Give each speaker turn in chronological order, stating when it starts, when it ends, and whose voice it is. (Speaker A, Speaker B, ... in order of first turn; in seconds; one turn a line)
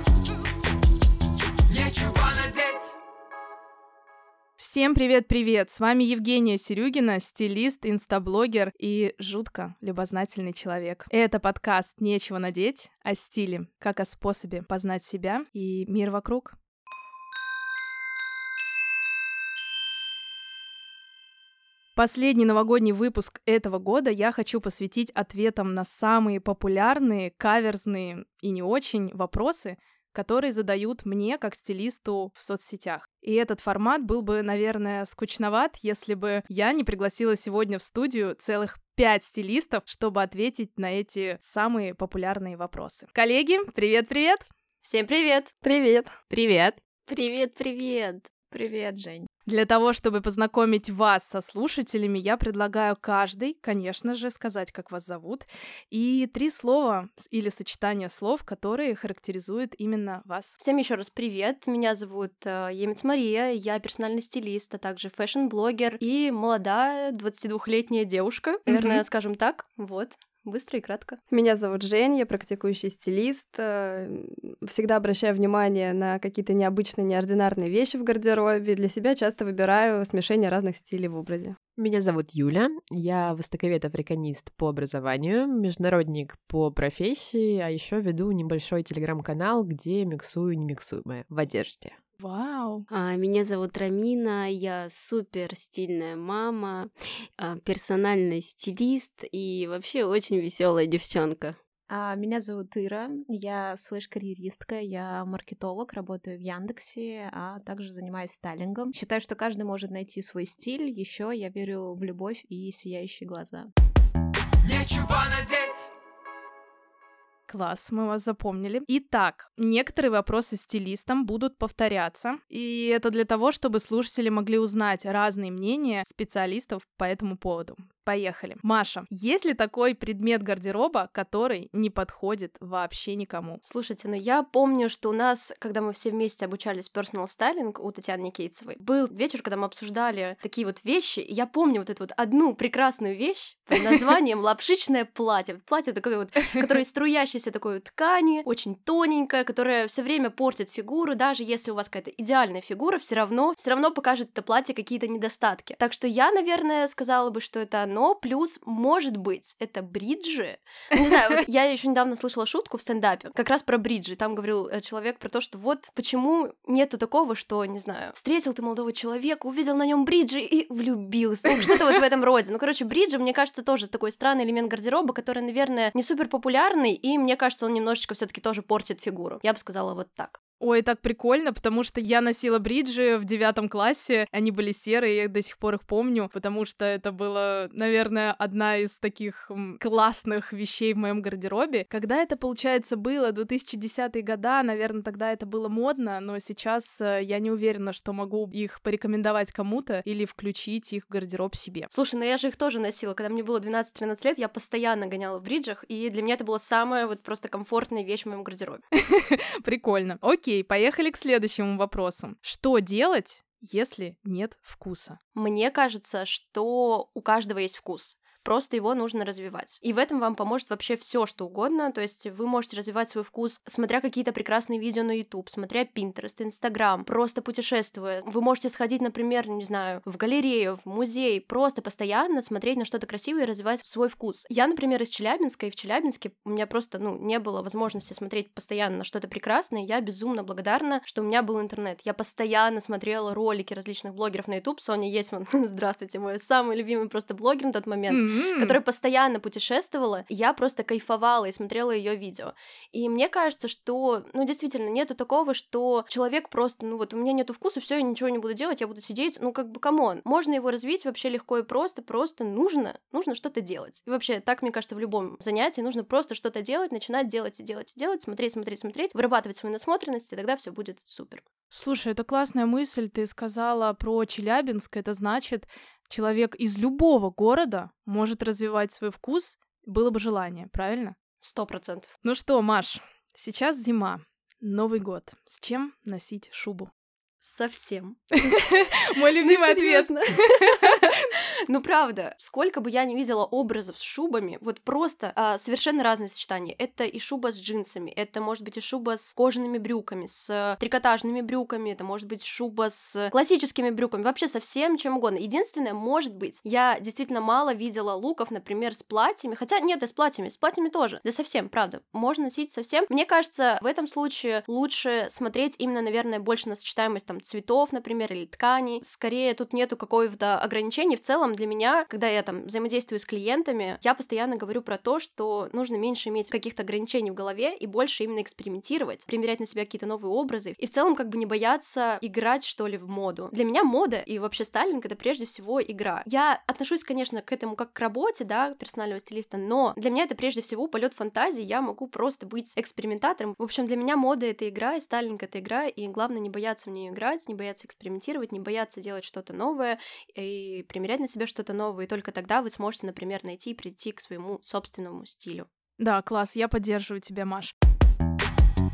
Speaker A: 4.6-16.5
Speaker A: 21.9-44.5
Speaker B: 44.8-45.5
Speaker C: 45.6-46.2
Speaker A: 46.3-46.8
Speaker D: 47.1-48.3
Speaker E: 48.5-49.3
Speaker A: 49.5-60.6
Speaker B: 60.6-71.2
Speaker A: 68.7-69.0
Speaker C: 71.3-81.5
Speaker F: 81.8-92.0
Speaker A: 92.2-92.8
Speaker D: 92.9-101.6
Speaker E: 101.9-113.7
Speaker E: 114.7-115.9
Speaker A: 117.5-133.6
Speaker B: 133.6-180.4
Speaker A: 180.6-201.9
Speaker B: 201.9-208.8
Speaker A: 208.9-215.2
Speaker B: 215.3-271.4
Speaker A: 248.1-248.8
Speaker A: 271.7-281.2
Speaker B: 281.4-282.1
Speaker A: 282.2-286.9
Speaker B: 287.4-288.2
Speaker A: 288.3-291.2
Speaker B: 288.9-355.7
Speaker A: 356.0-357.7